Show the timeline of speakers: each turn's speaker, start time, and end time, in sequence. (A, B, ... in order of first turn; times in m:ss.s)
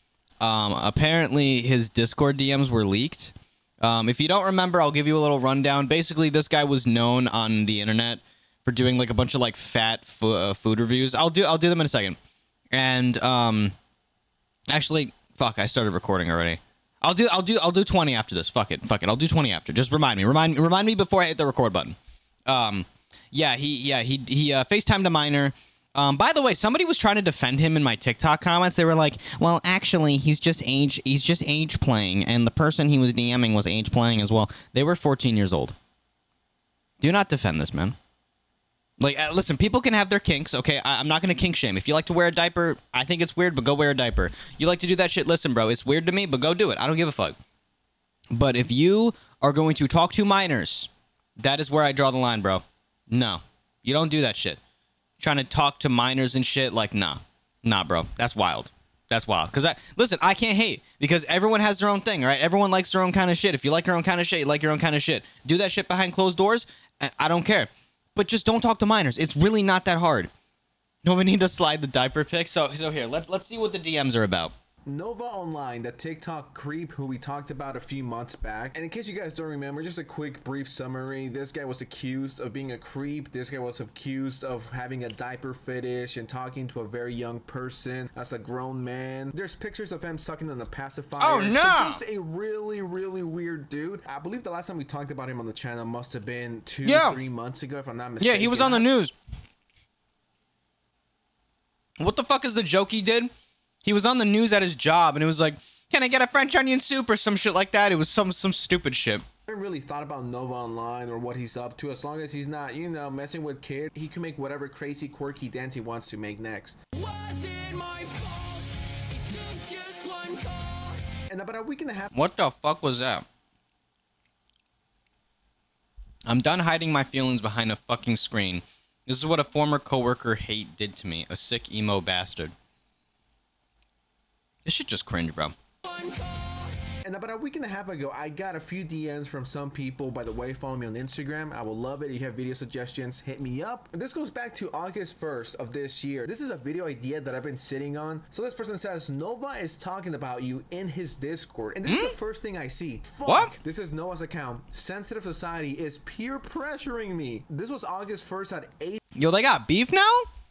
0:00.4-0:12.2 A
0:12.7-0:13.7 A
0:14.7-0:22.0 A
0:22.5-0:35.7 A
0:37.0-0:38.0 A
0:39.0-0:47.4 A
0:48.3-0:54.6 A
0:55.2-1:10.3 A
1:11.0-1:14.5 A
1:14.8-1:38.9 B
1:31.2-1:32.0 A
1:36.8-1:37.2 A
1:38.2-1:39.1 A
1:42.0-1:43.3 A
1:43.8-1:49.2 A
1:49.5-1:56.8 B
1:57.0-2:01.1 C
2:01.3-2:02.1 B
2:02.1-2:03.2 A
2:06.3-2:12.5 A
2:14.6-2:15.5 A
2:16.0-2:16.7 C
2:17.0-2:39.0 B
2:31.8-2:32.1 A
2:33.2-2:33.5 A
2:39.2-2:40.3 A